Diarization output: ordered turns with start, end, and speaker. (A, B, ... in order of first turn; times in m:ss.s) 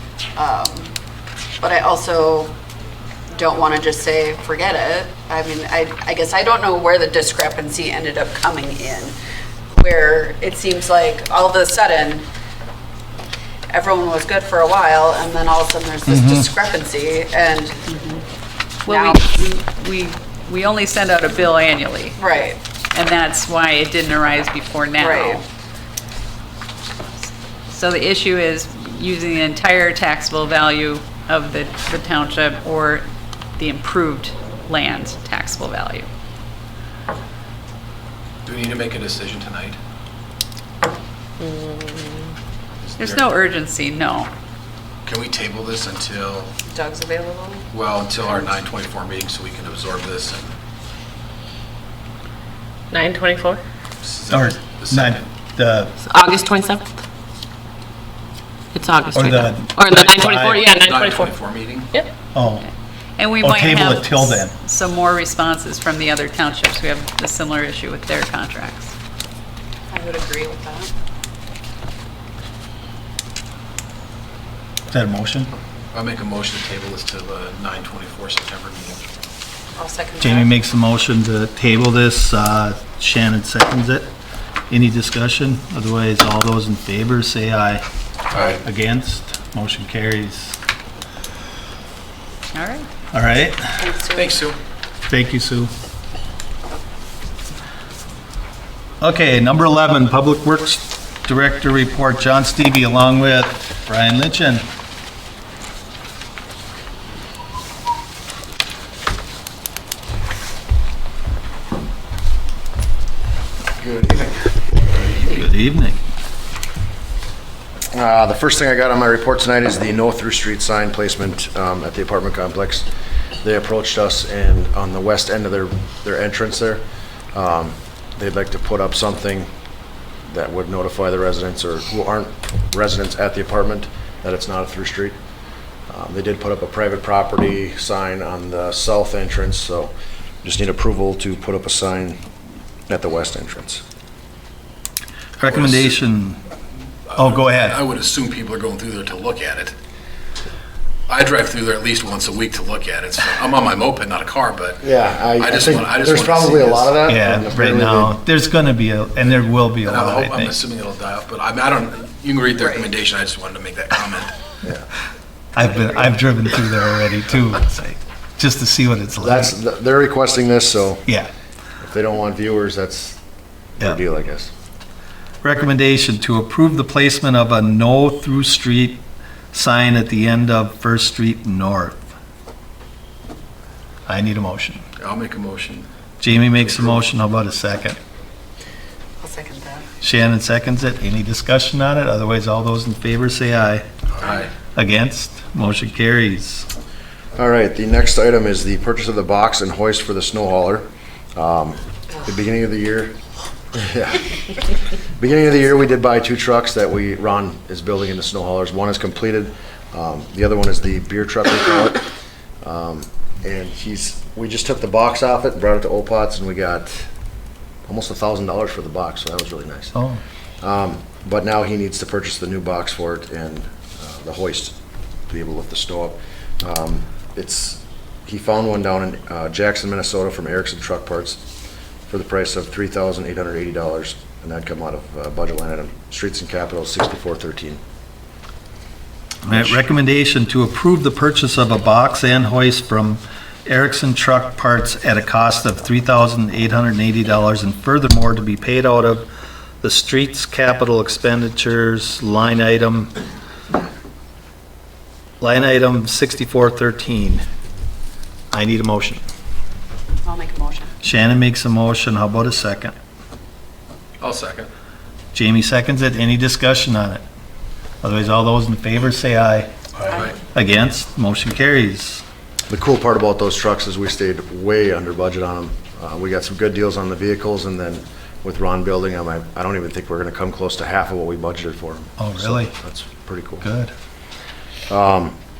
0:00.4-0:00.9 A
0:01.6-0:02.5 A
0:03.3-0:09.1 A
0:09.7-0:12.2 A
0:13.7-0:18.2 A
0:16.1-0:16.4 B
0:18.8-0:22.2 C
0:18.9-0:19.2 A
0:22.2-0:22.6 A
0:22.9-0:25.4 C
0:25.0-0:25.4 A
0:27.7-0:33.0 C
0:33.6-0:36.1 C
0:38.4-0:39.8 D
0:41.4-0:42.3 E
0:42.8-0:43.3 D
0:43.0-0:44.3 C
0:45.0-0:46.5 D
0:46.7-0:47.6 A
0:47.7-0:50.5 D
0:52.9-0:53.6 E
0:54.0-0:55.3 D
0:54.3-0:55.9 B
0:56.0-0:56.9 E
0:58.7-1:01.3 E
0:59.1-1:00.6 B
0:59.9-1:02.0 D
1:02.3-1:02.7 B
1:03.2-1:08.9 C
1:03.4-1:04.5 B
1:09.9-1:10.9 A
1:14.9-1:15.5 B
1:15.9-1:19.1 D
1:19.8-1:20.5 A
1:20.2-1:24.1 B
1:24.7-1:27.8 B
1:28.3-1:28.6 D
1:28.6-1:30.6 B
1:32.5-1:32.9 C
1:33.1-1:33.6 B
1:33.8-1:34.4 A
1:34.1-1:34.6 D
1:35.1-1:35.7 B
1:39.0-1:44.6 B
1:53.8-1:55.4 D
1:55.3-1:56.0 B
1:57.9-2:02.9 F
2:03.4-2:09.5 F
2:10.3-2:15.2 F
2:15.9-2:22.2 F
2:22.9-2:23.8 F
2:25.4-2:26.0 D
2:25.4-2:26.4 B
2:27.1-2:29.7 D
2:27.1-2:27.8 B
2:31.1-2:37.0 D
2:34.8-2:38.1 F
2:37.0-2:40.5 B
2:39.8-2:44.3 D
2:42.6-2:42.9 A
2:45.5-2:49.5 B
2:49.2-2:51.0 F
2:51.8-2:53.2 F
2:53.8-2:54.5 F
2:55.4-2:59.0 B
2:59.5-3:02.0 B
3:04.1-3:04.8 B
3:05.0-3:05.9 D
3:06.2-3:08.0 B
3:06.5-3:07.0 D
3:09.2-3:09.9 A
3:10.0-3:13.8 B
3:14.1-3:14.5 D
3:14.7-3:16.7 B
3:17.4-3:23.1 F
3:23.7-3:24.4 F
3:25.2-3:32.0 F
3:32.6-3:37.1 F
3:37.8-3:39.9 F
3:39.9-3:40.2 B
3:40.6-3:44.7 F
3:45.3-3:51.4 F
3:52.1-3:57.8 F
3:59.4-4:09.2 B
4:09.8-4:13.1 B
4:15.4-4:17.4 B
4:18.5-4:19.2 B
4:20.2-4:20.9 A
4:21.0-4:22.9 B
4:24.2-4:24.7 D
4:25.3-4:27.2 B
4:28.0-4:29.7 B
4:30.0-4:30.4 D
4:30.5-4:32.2 B
4:32.7-4:43.6 F
4:42.2-4:42.7 B
4:43.6-4:43.9 B
4:44.9-4:45.3 F